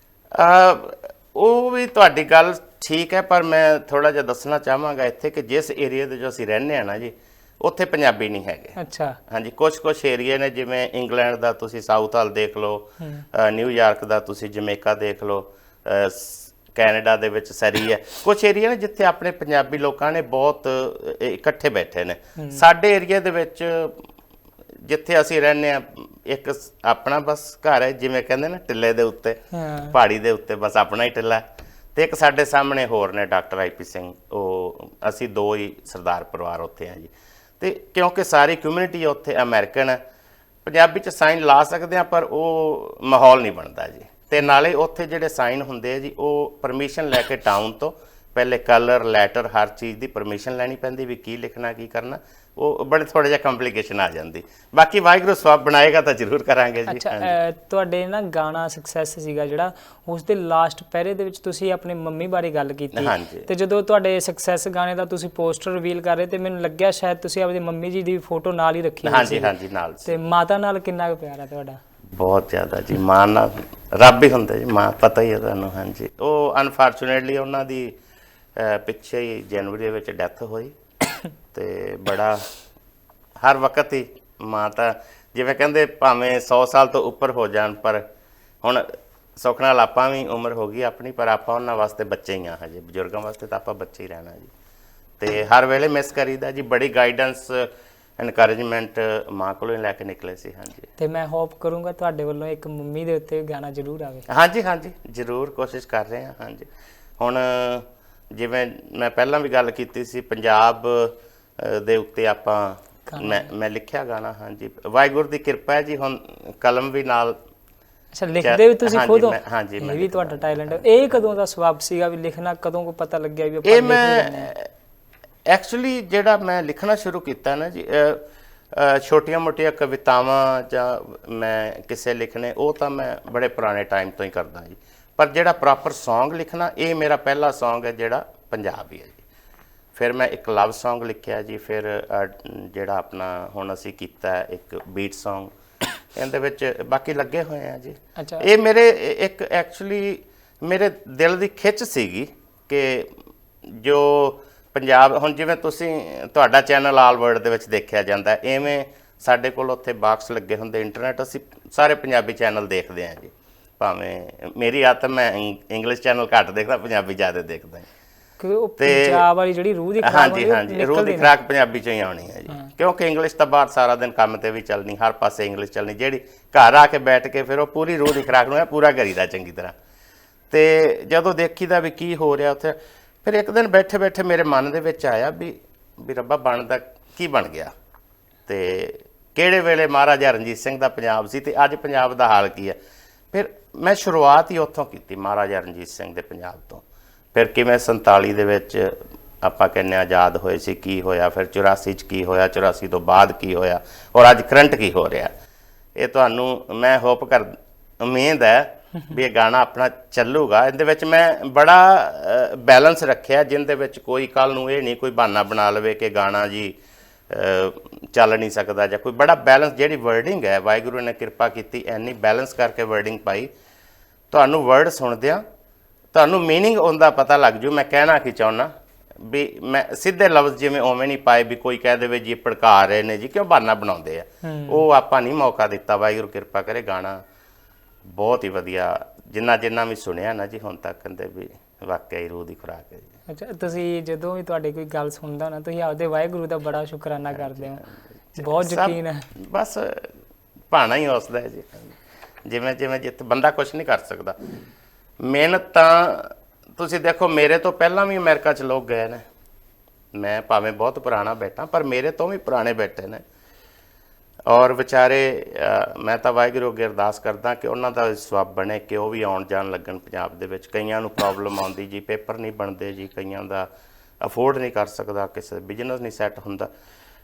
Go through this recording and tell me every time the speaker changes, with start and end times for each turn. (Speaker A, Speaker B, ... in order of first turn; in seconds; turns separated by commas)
Speaker A: 0.3-8.8, Speaker B: 8.8-9.2, Speaker A: 9.3-24.0, Speaker B: 13.0-13.2, Speaker B: 22.4-22.6, Speaker A: 24.8-40.0, Speaker B: 29.5-29.9, Speaker A: 40.6-57.4, Speaker B: 56.9-69.5, Speaker A: 62.9-63.5, Speaker A: 69.0-70.1, Speaker B: 70.0-71.8, Speaker A: 72.1-78.0, Speaker A: 78.5-80.7, Speaker A: 81.5-82.5, Speaker A: 83.4-88.0, Speaker A: 88.6-94.5, Speaker A: 95.2-100.9, Speaker B: 101.0-104.2, Speaker A: 104.3-106.7, Speaker A: 107.2-117.4, Speaker B: 113.1-113.5, Speaker B: 118.1-124.5, Speaker A: 118.4-121.2, Speaker A: 123.6-124.7, Speaker A: 125.5-139.2, Speaker A: 139.9-145.5, Speaker A: 146.1-153.1, Speaker B: 148.2-148.5, Speaker A: 153.6-167.8, Speaker B: 168.4-171.3, Speaker A: 168.8-169.2, Speaker A: 170.0-179.7, Speaker A: 180.5-187.7, Speaker A: 188.5-192.8, Speaker A: 193.3-196.8, Speaker A: 197.3-205.3, Speaker A: 205.9-216.7, Speaker A: 217.3-223.5, Speaker A: 224.3-225.4, Speaker A: 226.1-237.2, Speaker B: 234.4-234.8, Speaker A: 238.1-243.1, Speaker B: 243.3-247.8, Speaker A: 247.3-250.1, Speaker B: 248.4-249.2, Speaker A: 250.7-251.9, Speaker A: 252.4-254.3, Speaker A: 255.2-259.2, Speaker A: 260.1-263.2, Speaker A: 264.5-273.7, Speaker A: 274.2-276.7